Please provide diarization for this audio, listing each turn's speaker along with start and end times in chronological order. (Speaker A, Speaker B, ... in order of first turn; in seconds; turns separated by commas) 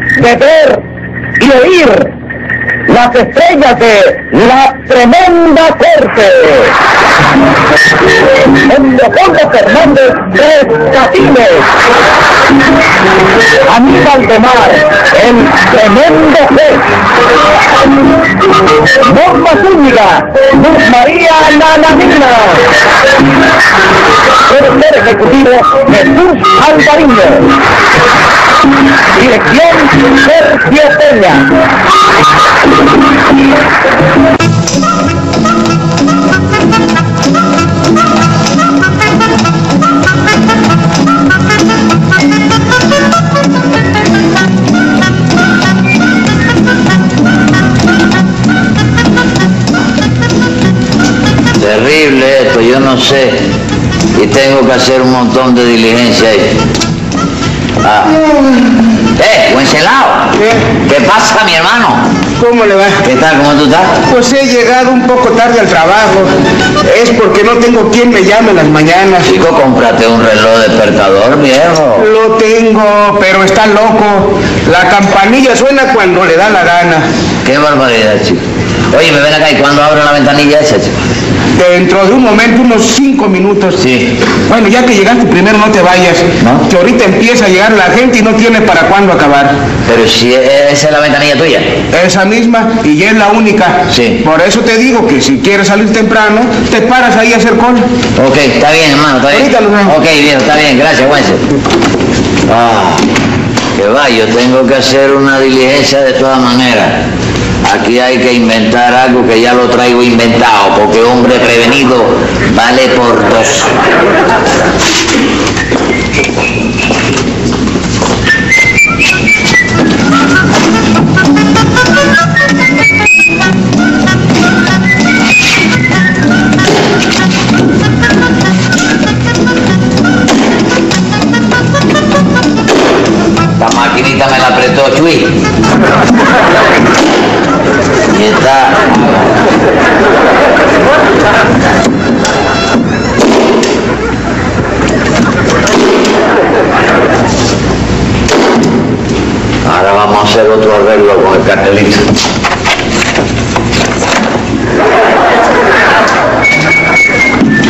Speaker A: 0.2-0.8, Speaker A: 1.4-2.1, Speaker A: 2.9-6.7, Speaker A: 8.5-11.7, Speaker A: 13.7-16.8, Speaker A: 19.0-22.7, Speaker A: 24.5-27.5, Speaker A: 29.1-31.5, Speaker B: 51.6-53.5, Speaker B: 54.1-56.6, Speaker B: 57.8-58.1, Speaker B: 59.1-62.1, Speaker C: 60.3-60.6, Speaker C: 62.4-63.0, Speaker B: 63.0-64.0, Speaker C: 64.0-66.3, Speaker C: 66.8-69.3, Speaker B: 69.2-72.1, Speaker C: 72.0-77.0, Speaker B: 77.4-80.9, Speaker C: 81.5-83.8, Speaker B: 83.8-84.1, Speaker C: 84.5-89.6, Speaker B: 86.4-86.7, Speaker B: 89.8-91.8, Speaker C: 91.9-97.9, Speaker B: 93.9-94.2, Speaker B: 98.2-101.4, Speaker C: 99.3-100.0, Speaker B: 102.5-103.0, Speaker B: 103.8-107.0, Speaker B: 107.6-113.7, Speaker B: 133.6-135.4, Speaker B: 138.1-139.3, Speaker B: 149.6-152.1